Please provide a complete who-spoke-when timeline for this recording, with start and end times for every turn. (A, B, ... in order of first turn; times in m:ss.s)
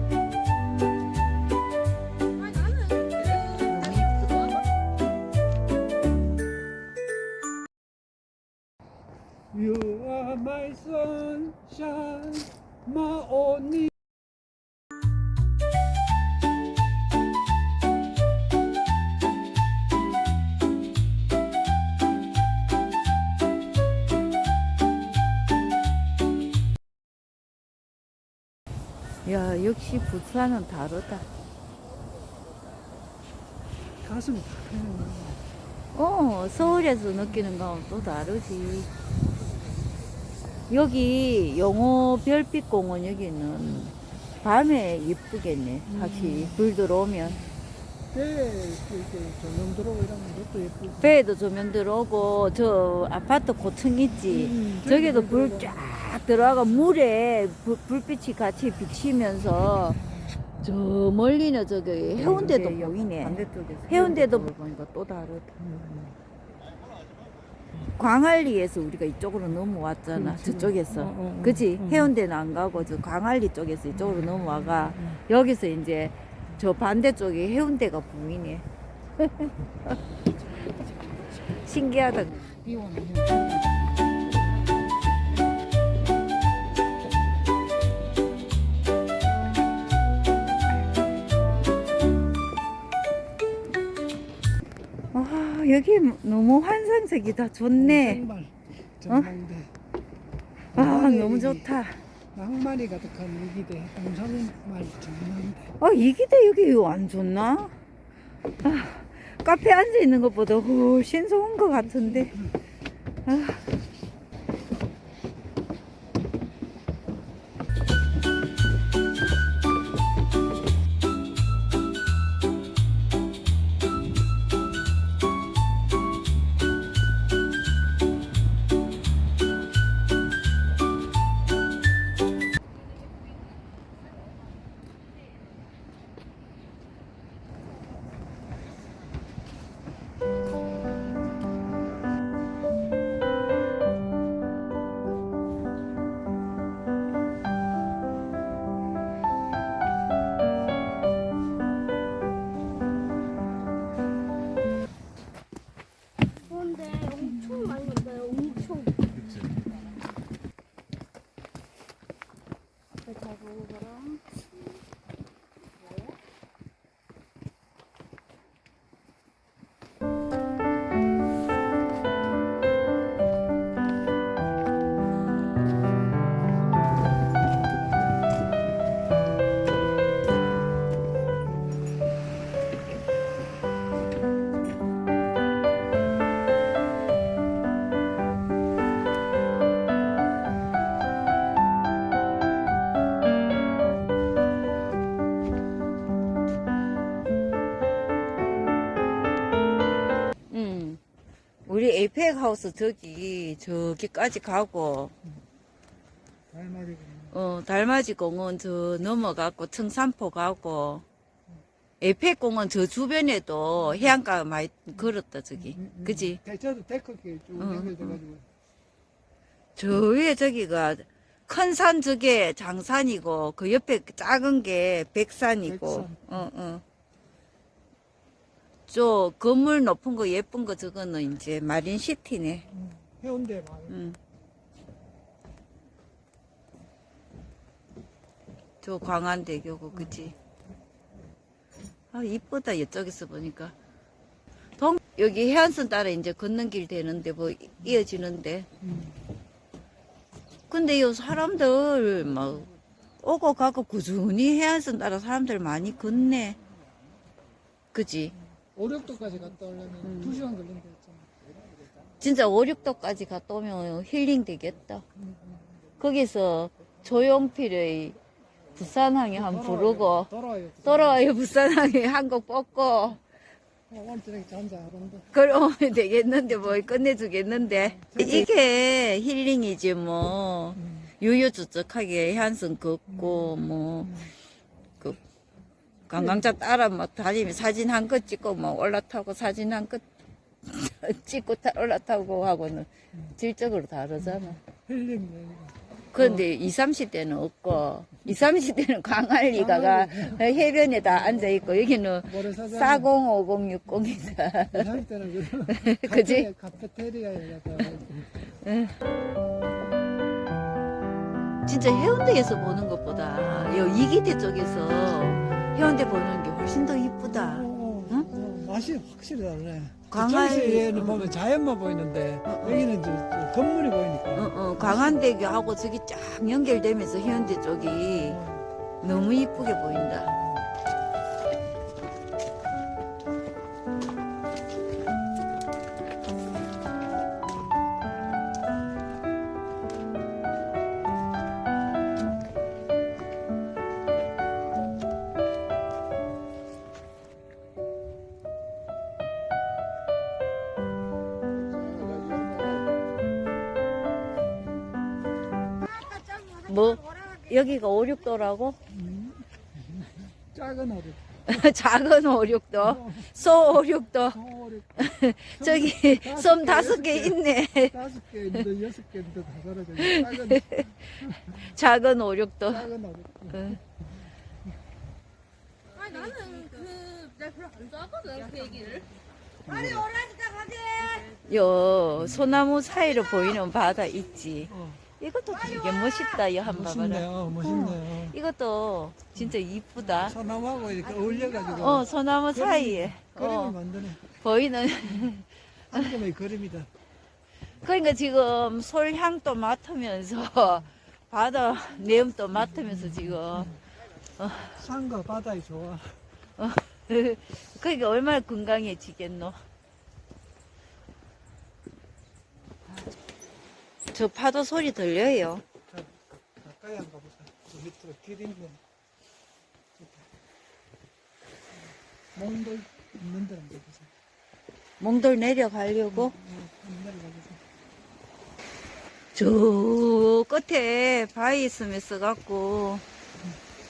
0:02.6-0:03.4 A
0:03.4-0:04.5 B
0:09.5-0:13.9 C
0:29.2-0:31.3 B
0:34.0-0:35.4 C
0:35.9-0:38.9 B
0:40.7-0:47.4 B
0:45.9-0:46.7 C
0:47.2-0:47.6 C
0:48.1-0:51.1 C
0:51.0-1:00.0 B
0:54.3-0:55.9 C
1:00.1-1:00.5 C
1:00.6-1:05.6 B
1:02.2-1:04.5 C
1:05.6-1:06.1 C
1:08.0-1:18.6 B
1:10.1-1:12.1 C
1:13.9-1:15.2 C
1:19.2-1:20.0 B
1:21.5-1:22.6 B
1:22.6-1:23.8 C
1:35.1-1:38.2 B
1:37.7-1:39.7 C
1:40.7-1:41.7 C
1:40.7-1:42.0 B
1:42.3-1:45.7 C
1:45.8-1:47.7 B
1:48.6-1:52.3 B
1:51.8-1:52.4 C
1:53.2-1:53.6 B
2:36.5-2:39.2 A
2:43.0-2:44.4 A
3:20.5-3:21.0 B
3:21.6-3:25.1 B
3:26.5-3:27.4 C
3:27.3-3:31.0 B
3:32.0-3:36.4 B
3:33.8-3:34.2 C
3:35.6-3:38.4 C
3:37.6-3:38.2 B
3:39.8-3:46.8 B
3:45.6-3:46.5 C
3:48.9-3:52.7 B
3:52.7-3:54.0 C
3:53.9-3:54.2 B
3:58.8-4:00.3 B
4:02.1-4:03.7 B
4:04.8-4:08.7 B
4:08.8-4:09.2 C
4:10.7-4:12.7 B
4:13.2-4:16.6 B
4:17.9-4:18.3 B
4:18.6-4:21.3 C
4:20.0-4:20.4 B
4:22.2-4:25.0 B
4:25.2-4:25.7 C
4:26.0-4:28.2 B
4:28.7-4:30.3 B
4:29.3-4:31.3 C
4:30.8-4:33.2 B
4:33.9-4:35.3 C
4:35.3-4:44.3 B
4:37.8-4:38.6 C
4:43.1-4:44.3 C
4:46.1-4:50.0 B
4:46.2-4:46.4 C
4:50.6-4:54.6 B
4:54.2-4:56.4 C
4:56.1-5:05.0 B
4:59.5-5:03.1 C
5:04.7-5:08.4 C
5:05.7-5:06.5 B
5:08.5-5:09.0 B
5:11.6-5:18.3 B
5:17.3-5:25.2 C
5:20.1-5:21.3 B
5:22.4-5:22.9 B
5:24.3-5:28.4 B
5:27.9-5:28.6 C
5:29.0-5:30.3 B
5:30.2-5:30.6 C
5:51.8-5:52.5 C
5:56.3-5:58.8 B
5:58.9-6:01.6 C
6:01.5-6:04.4 B
6:02.8-6:03.6 C
6:04.2-6:11.7 C
6:05.0-6:07.9 B
6:10.0-6:12.9 B
6:12.7-6:13.8 C
6:13.5-6:13.8 B
6:15.9-6:19.1 A
6:19.7-6:21.4 A
6:19.7-6:20.1 C
6:21.4-6:30.4 B
6:24.6-6:25.0 C
6:26.6-6:28.4 C
6:30.1-6:34.3 C
6:31.8-6:33.8 B
6:34.3-6:36.1 B
6:35.9-6:36.9 C
6:37.8-6:43.8 B
6:42.6-6:43.8 C
6:44.4-6:44.7 B
6:44.7-6:46.2 C
6:46.6-6:49.6 B
6:54.1-6:55.6 B
6:55.9-6:58.8 C
7:00.0-7:00.2 C
7:02.3-7:04.1 C
7:05.0-7:06.3 B
7:06.1-7:07.6 C
7:09.3-7:13.0 B